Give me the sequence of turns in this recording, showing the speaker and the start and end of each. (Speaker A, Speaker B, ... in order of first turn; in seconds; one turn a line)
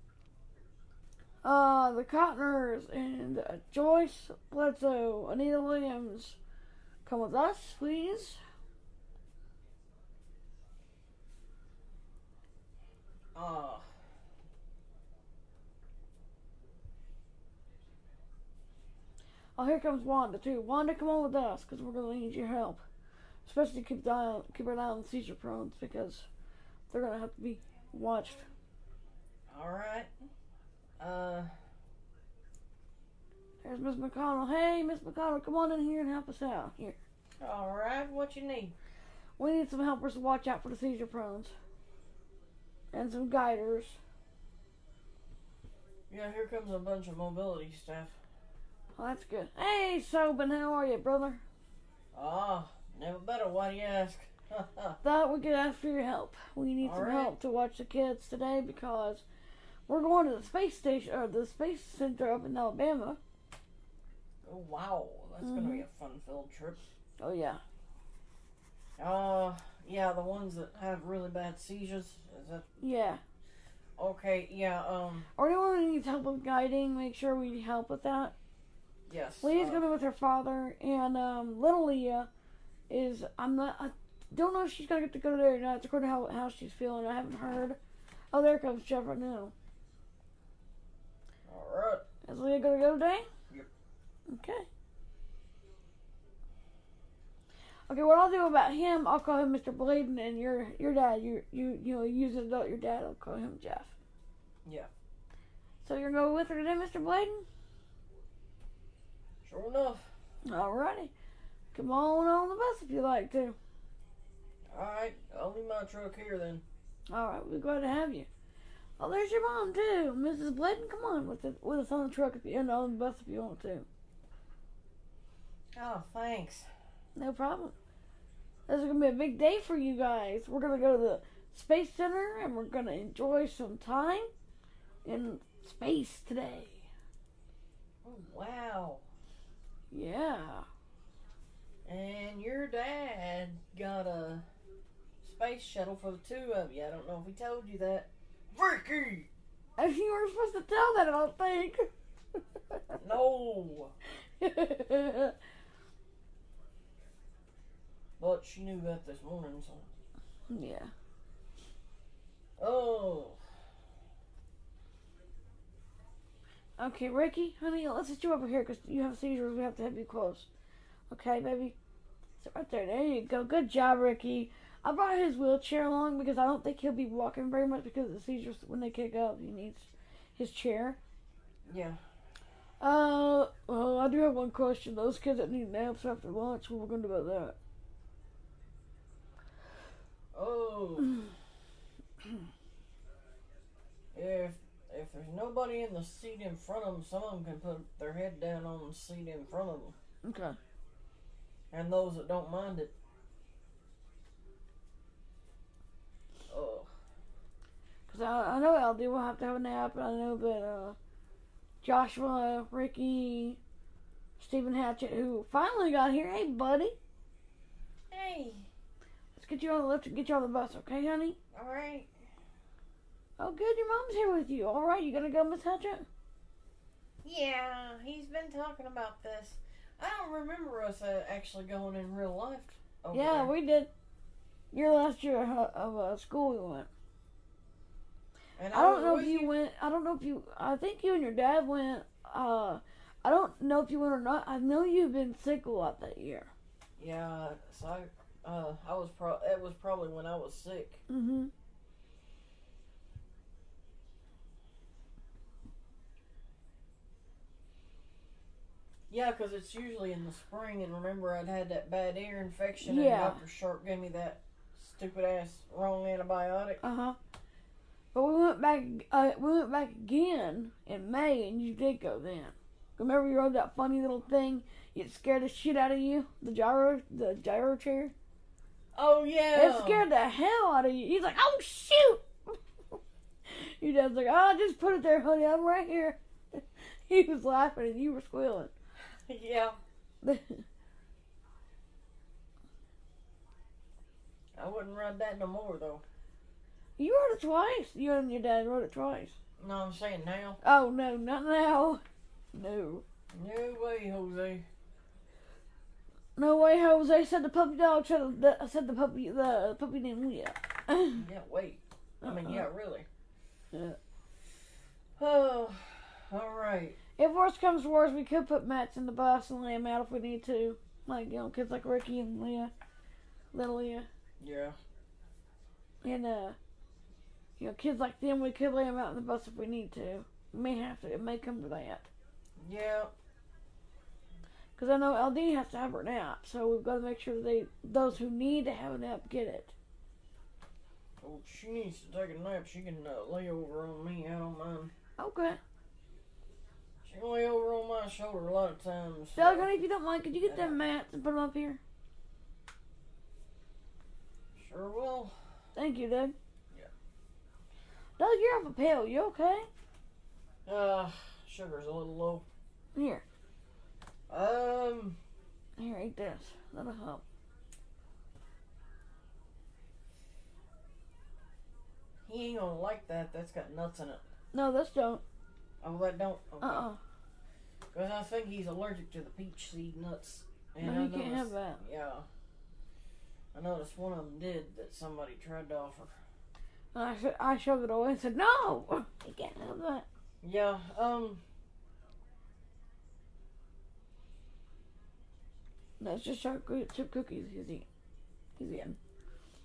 Speaker A: 1.4-6.4
Speaker A: 7.0-8.4
Speaker B: 13.3-13.9
Speaker A: 19.6-22.8
Speaker A: 23.5-26.3
Speaker A: 26.9-28.4
Speaker B: 29.5-30.1
Speaker B: 31.0-31.5
Speaker A: 33.6-37.0
Speaker B: 37.4-38.8
Speaker A: 39.4-41.5
Speaker A: 42.9-44.0
Speaker B: 46.1-48.2
Speaker A: 49.0-51.4
Speaker B: 52.1-55.0
Speaker A: 55.0-59.2
Speaker B: 56.8-57.4
Speaker A: 59.9-63.2
Speaker B: 64.4-66.8
Speaker A: 65.4-65.8
Speaker A: 67.2-67.6
Speaker B: 69.0-72.7
Speaker A: 72.8-73.2
Speaker B: 74.0-75.3
Speaker A: 75.4-78.3
Speaker B: 79.1-79.8
Speaker A: 79.4-82.3
Speaker A: 82.9-87.8
Speaker A: 88.3-89.5
Speaker B: 91.5-92.0
Speaker A: 92.2-93.3
Speaker A: 94.3-94.7
Speaker A: 97.9-103.9
Speaker B: 104.7-104.9
Speaker A: 105.8-107.5
Speaker B: 109.4-110.1
Speaker A: 110.4-111.1
Speaker A: 111.7-113.6
Speaker B: 114.7-116.6
Speaker A: 117.1-118.3
Speaker A: 119.0-123.9
Speaker B: 125.8-126.7
Speaker A: 127.2-127.7
Speaker A: 128.7-134.3
Speaker A: 135.1-136.9
Speaker B: 138.0-139.0
Speaker A: 139.9-140.7
Speaker B: 141.8-144.4
Speaker B: 145.2-149.3
Speaker A: 149.8-151.9
Speaker A: 152.7-153.0
Speaker B: 153.0-153.9
Speaker A: 154.4-155.4
Speaker B: 158.2-159.9
Speaker A: 160.5-160.9
Speaker B: 162.6-163.4
Speaker A: 166.8-170.5
Speaker A: 171.1-171.8
Speaker A: 172.4-181.0
Speaker B: 181.7-182.0
Speaker A: 182.8-187.6
Speaker B: 190.3-191.2
Speaker B: 194.1-200.0
Speaker A: 200.2-200.6
Speaker B: 201.7-202.9
Speaker B: 206.5-206.9
Speaker A: 208.1-211.0
Speaker A: 211.8-213.6
Speaker A: 214.4-217.0
Speaker B: 218.1-218.7
Speaker A: 219.3-221.4
Speaker B: 221.5-222.1
Speaker A: 223.4-226.1
Speaker B: 227.2-233.5
Speaker A: 233.1-233.9
Speaker A: 234.7-236.9
Speaker B: 238.6-239.5
Speaker A: 238.7-246.5
Speaker B: 247.0-251.0
Speaker A: 251.1-251.5
Speaker B: 259.1-266.8
Speaker A: 262.8-263.4
Speaker A: 266.8-267.2
Speaker A: 268.1-278.1
Speaker B: 278.9-280.1
Speaker A: 279.6-282.6
Speaker A: 283.5-288.7
Speaker B: 289.3-289.8
Speaker A: 290.2-290.6
Speaker B: 294.6-296.0
Speaker A: 297.0-299.4
Speaker B: 299.6-300.6
Speaker A: 300.6-302.0
Speaker A: 302.5-303.1
Speaker B: 303.3-304.7
Speaker A: 306.4-311.2
Speaker B: 311.1-313.1
Speaker A: 312.2-312.7
Speaker A: 313.7-314.0
Speaker B: 315.2-317.0
Speaker A: 317.2-322.7
Speaker A: 323.5-324.1
Speaker B: 324.4-324.8
Speaker A: 326.0-326.6
Speaker A: 327.6-332.1
Speaker B: 332.6-333.1
Speaker A: 334.8-339.7
Speaker B: 341.2-344.9
Speaker A: 345.2-345.6
Speaker B: 347.0-349.7
Speaker A: 349.4-351.8
Speaker B: 350.4-350.8
Speaker B: 354.6-355.3
Speaker A: 355.8-356.4
Speaker A: 358.2-359.7
Speaker B: 360.7-362.4
Speaker A: 362.9-363.2
Speaker B: 364.3-365.2
Speaker A: 365.8-367.2
Speaker B: 372.3-374.2
Speaker A: 374.5-375.2
Speaker B: 375.8-376.9
Speaker A: 376.6-377.0
Speaker B: 377.9-382.3
Speaker A: 380.8-381.8
Speaker B: 383.5-386.2
Speaker A: 386.9-390.1
Speaker B: 390.4-391.4
Speaker A: 396.0-397.9
Speaker A: 398.6-399.0